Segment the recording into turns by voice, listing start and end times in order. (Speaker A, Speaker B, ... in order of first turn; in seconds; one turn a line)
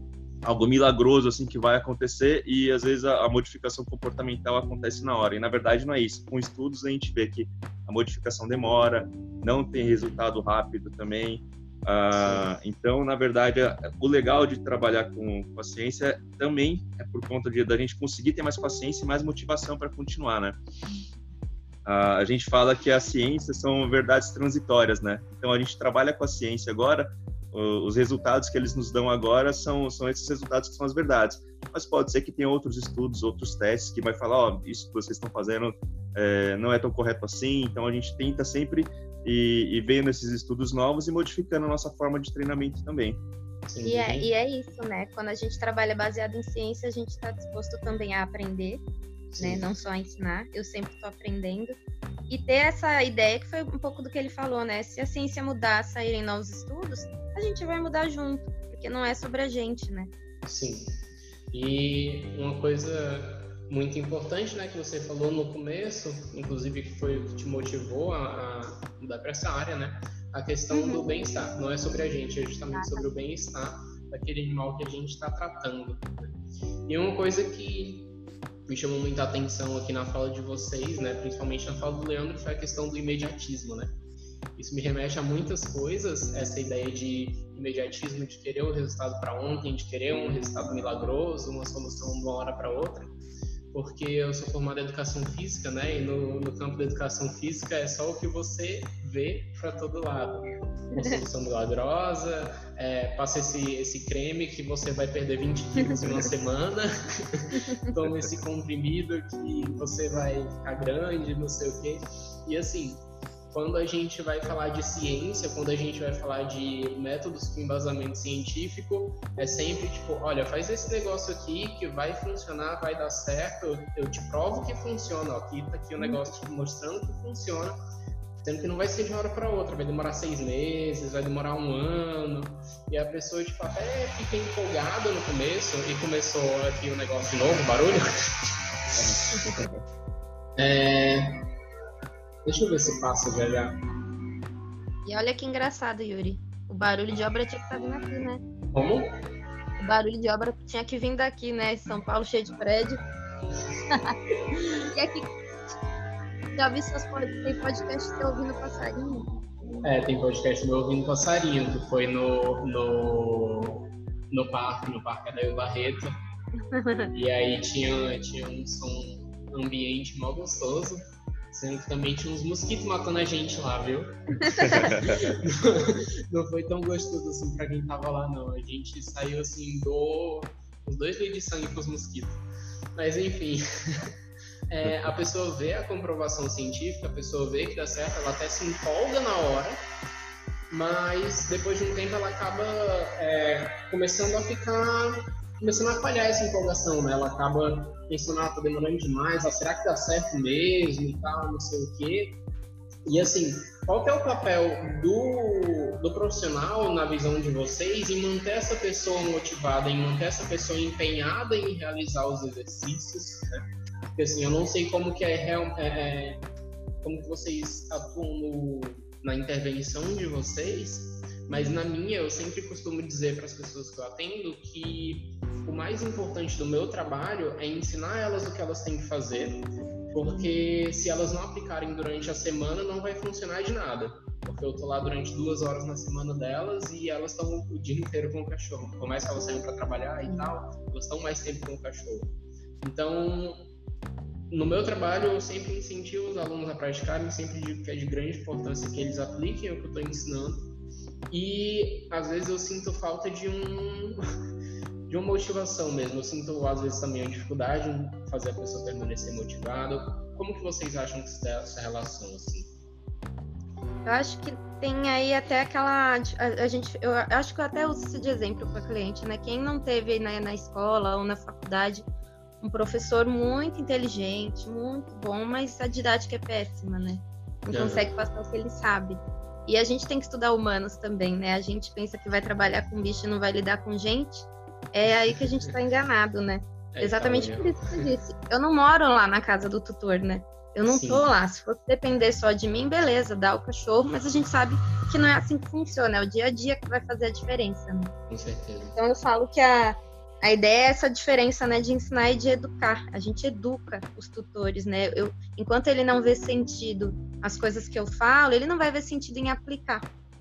Speaker A: 0.4-20.6
Speaker B: 9.8-10.2
Speaker B: 12.1-12.4
Speaker A: 21.8-43.2
Speaker B: 43.7-44.3
Speaker C: 43.8-48.8
Speaker B: 49.3-49.6
Speaker C: 49.4-51.7
Speaker C: 52.3-60.1
Speaker B: 60.4-60.9
Speaker B: 61.5-76.3
Speaker C: 70.7-71.0
Speaker C: 72.7-73.2
Speaker B: 76.9-78.1
Speaker B: 78.7-83.9
Speaker B: 84.5-93.1
Speaker B: 93.7-127.8
Speaker C: 100.9-101.2
Speaker C: 105.8-106.0
Speaker B: 128.4-138.4
Speaker A: 138.9-139.8
Speaker B: 140.6-141.3
Speaker B: 142.4-143.8
Speaker C: 145.0-148.4
Speaker B: 148.7-149.1
Speaker C: 149.8-153.0
Speaker C: 153.9-155.3
Speaker C: 156.5-159.3
Speaker B: 159.8-166.1
Speaker C: 166.7-167.1
Speaker B: 167.1-171.0
Speaker B: 171.5-182.4
Speaker C: 174.4-174.9
Speaker A: 174.7-175.3
Speaker B: 182.9-184.1
Speaker B: 184.7-189.8
Speaker B: 190.7-202.4
Speaker B: 203.1-213.6
Speaker B: 214.2-216.4
Speaker B: 217.0-242.3
Speaker C: 221.5-221.8
Speaker C: 240.2-240.5
Speaker B: 242.8-243.7
Speaker B: 244.5-250.7
Speaker B: 251.3-254.2
Speaker B: 255.1-262.7
Speaker C: 264.0-272.0
Speaker C: 272.6-298.1
Speaker B: 277.7-278.1
Speaker B: 285.3-285.7
Speaker B: 286.9-288.1
Speaker B: 290.9-291.2
Speaker B: 298.3-298.9
Speaker C: 298.9-310.0